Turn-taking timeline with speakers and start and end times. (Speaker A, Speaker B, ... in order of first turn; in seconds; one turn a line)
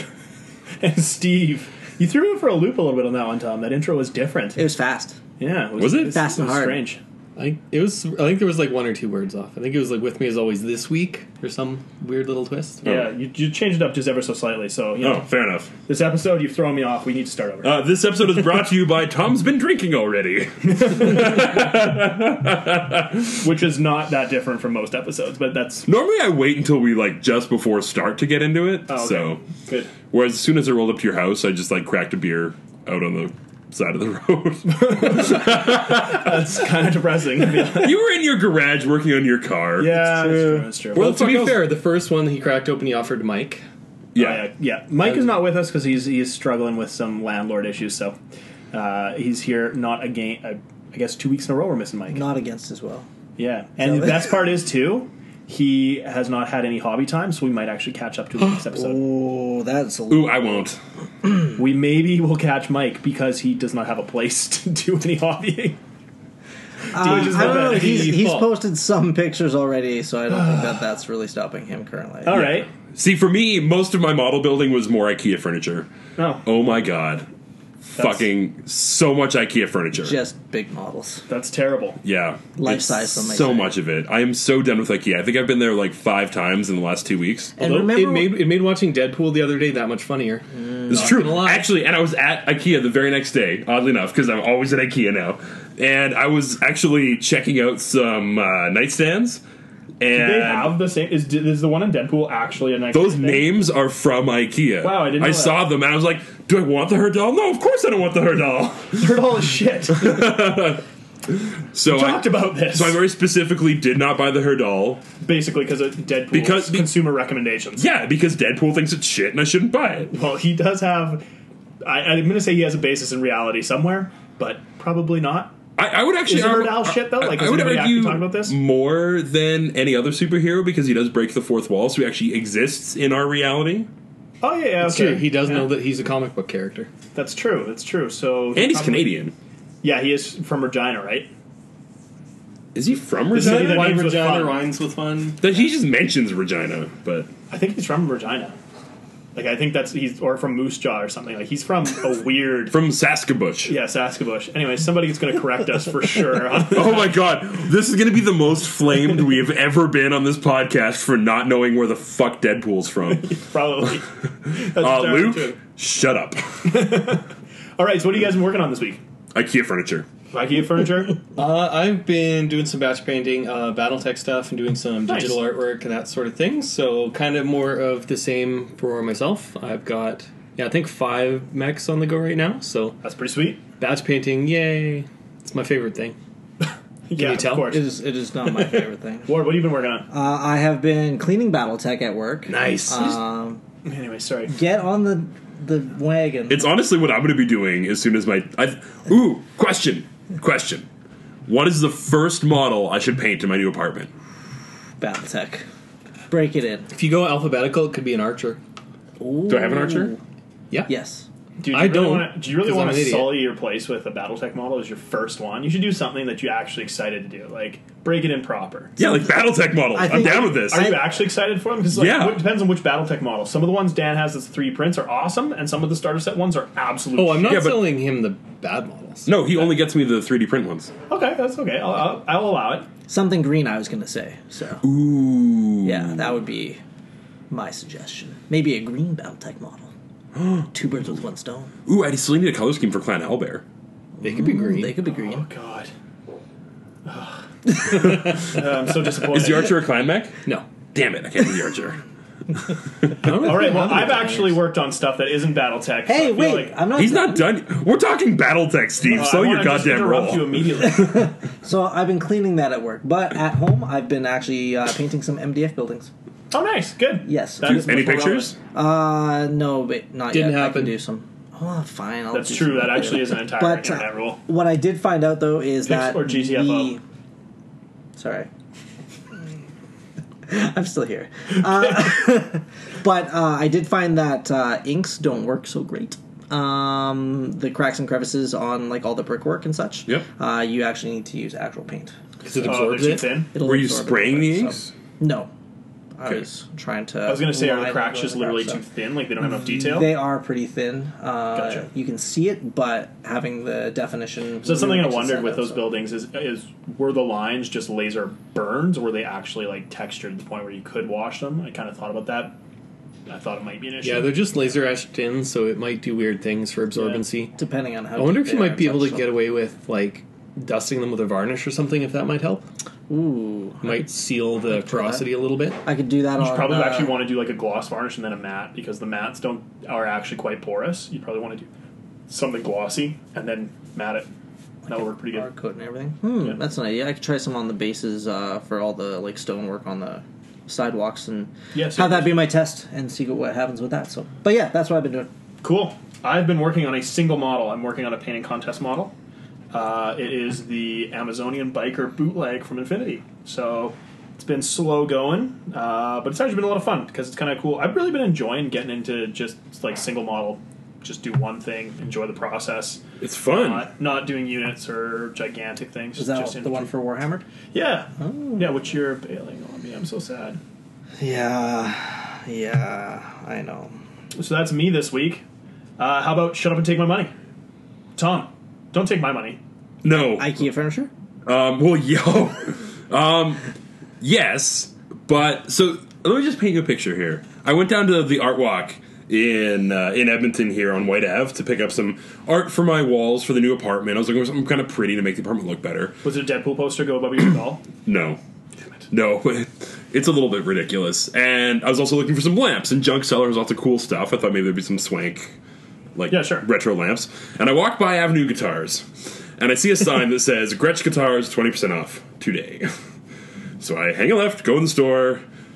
Speaker A: 0.8-4.6
Speaker B: 4.5-5.2
Speaker A: 5.4-7.0
Speaker C: 5.8-6.2
Speaker B: 6.1-6.8
Speaker D: 7.3-12.8
Speaker C: 12.8-13.1
Speaker A: 12.8-15.3
Speaker C: 15.0-15.7
Speaker A: 15.8-17.7
Speaker C: 17.6-23.5
Speaker A: 23.4-25.9
Speaker C: 25.8-29.4
Speaker A: 28.9-29.9
Speaker C: 30.0-36.6
Speaker A: 34.7-38.0
Speaker C: 37.5-40.0
Speaker A: 39.8-41.0
Speaker B: 39.9-40.7
Speaker C: 40.9-41.7
Speaker D: 40.9-43.6
Speaker C: 44.1-44.5
Speaker A: 44.1-48.1
Speaker A: 48.7-52.2
Speaker B: 52.1-53.1
Speaker A: 53.4-59.0
Speaker B: 53.8-54.3
Speaker B: 58.7-60.6
Speaker C: 60.1-60.8
Speaker A: 61.6-65.8
Speaker A: 66.9-68.3
Speaker B: 66.9-72.5
Speaker D: 67.0-68.5
Speaker A: 70.3-70.8
Speaker A: 72.2-72.7
Speaker C: 72.3-75.9
Speaker A: 76.2-76.4
Speaker C: 76.4-77.3
Speaker C: 77.9-80.2
Speaker A: 78.0-78.2
Speaker B: 80.0-81.2
Speaker A: 81.3-82.0
Speaker C: 82.0-87.5
Speaker B: 82.6-83.8
Speaker B: 87.5-88.4
Speaker D: 87.6-91.7
Speaker B: 90.5-91.3
Speaker C: 90.9-99.4
Speaker C: 100.0-100.8
Speaker A: 100.1-103.4
Speaker C: 102.9-109.0
Speaker A: 104.8-105.6
Speaker A: 108.9-110.2
Speaker C: 109.9-115.0
Speaker A: 111.8-113.0
Speaker A: 115.2-117.9
Speaker C: 116.3-116.9
Speaker C: 117.8-120.1
Speaker A: 120.0-121.2
Speaker A: 121.8-125.5
Speaker C: 125.8-133.9
Speaker A: 126.2-128.6
Speaker A: 134.4-135.7
Speaker D: 134.8-136.9
Speaker A: 137.1-139.1
Speaker C: 138.5-139.3
Speaker A: 139.8-141.3
Speaker C: 142.7-144.0
Speaker D: 143.3-145.4
Speaker A: 143.3-144.6
Speaker C: 145.4-147.3
Speaker A: 147.5-148.5
Speaker A: 149.3-152.8
Speaker C: 152.7-153.7
Speaker A: 153.7-157.2
Speaker C: 156.7-163.3
Speaker A: 163.1-165.6
Speaker C: 164.8-166.9
Speaker A: 166.7-167.3
Speaker A: 167.8-169.0
Speaker C: 169.3-170.1
Speaker A: 170.3-171.2
Speaker D: 171.3-183.0
Speaker A: 175.1-175.4
Speaker A: 183.0-183.6
Speaker D: 183.8-186.2
Speaker A: 187.1-187.9
Speaker D: 187.1-187.8
Speaker B: 187.6-189.3
Speaker A: 189.2-190.1
Speaker B: 190.1-193.6
Speaker D: 192.5-193.2
Speaker A: 193.8-194.5
Speaker B: 194.5-196.7
Speaker C: 196.5-200.9
Speaker C: 201.4-204.1
Speaker B: 205.0-205.7
Speaker B: 206.3-206.9
Speaker D: 206.9-208.6
Speaker B: 209.2-210.2
Speaker C: 209.5-210.1
Speaker B: 210.9-211.3
Speaker A: 211.6-218.9
Speaker D: 211.7-213.4
Speaker B: 219.0-219.4
Speaker C: 219.0-220.9
Speaker B: 219.9-221.1
Speaker A: 220.1-227.7
Speaker C: 221.9-222.4
Speaker D: 227.2-229.3
Speaker C: 227.4-227.9
Speaker C: 229.2-230.9
Speaker A: 231.1-232.9
Speaker B: 233.1-234.8
Speaker C: 234.8-236.3
Speaker B: 235.8-236.8
Speaker B: 237.5-239.9
Speaker B: 240.7-241.7
Speaker C: 241.8-243.6
Speaker B: 244.2-245.4
Speaker D: 244.2-245.0
Speaker A: 245.1-245.9
Speaker A: 247.0-249.8
Speaker C: 247.9-248.4
Speaker C: 249.2-250.4
Speaker C: 250.9-252.0
Speaker C: 253.0-253.3
Speaker D: 253.2-254.6
Speaker A: 253.3-256.8
Speaker B: 256.1-257.5
Speaker C: 256.9-260.8
Speaker A: 259.0-261.3
Speaker B: 260.8-266.1
Speaker A: 266.5-268.5
Speaker B: 267.2-267.9
Speaker C: 267.6-268.6
Speaker B: 268.7-277.0
Speaker D: 270.3-270.9
Speaker A: 272.3-274.4
Speaker A: 275.8-276.9
Speaker B: 278.1-278.5
Speaker B: 280.5-292.1
Speaker D: 292.4-293.4
Speaker A: 292.6-293.5
Speaker B: 293.5-295.5
Speaker C: 293.6-294.9
Speaker B: 296.2-298.8
Speaker A: 297.2-300.1
Speaker B: 299.6-305.9
Speaker A: 301.5-301.8
Speaker A: 304.6-312.6
Speaker A: 313.3-314.3
Speaker D: 314.0-317.5
Speaker A: 316.9-317.2
Speaker B: 317.6-319.3
Speaker D: 318.2-322.6
Speaker B: 323.1-324.1
Speaker D: 323.8-325.8
Speaker B: 324.7-325.2
Speaker B: 325.8-327.2
Speaker A: 326.4-331.7
Speaker A: 332.3-334.3
Speaker B: 334.9-345.3
Speaker A: 334.9-335.5
Speaker A: 341.7-342.4
Speaker A: 345.6-349.1
Speaker A: 349.7-366.9
Speaker C: 363.2-363.9
Speaker B: 366.2-367.4
Speaker A: 367.7-370.6
Speaker B: 368.2-368.6
Speaker B: 371.2-373.9
Speaker A: 374.4-375.4
Speaker A: 376.0-377.3
Speaker A: 378.2-379.6
Speaker C: 380.0-380.5
Speaker B: 380.3-381.1
Speaker C: 381.4-383.7
Speaker C: 384.2-396.1
Speaker A: 396.2-397.9
Speaker C: 398.0-398.4
Speaker C: 399.1-405.5
Speaker C: 406.1-412.9
Speaker A: 406.3-406.7
Speaker C: 413.8-415.4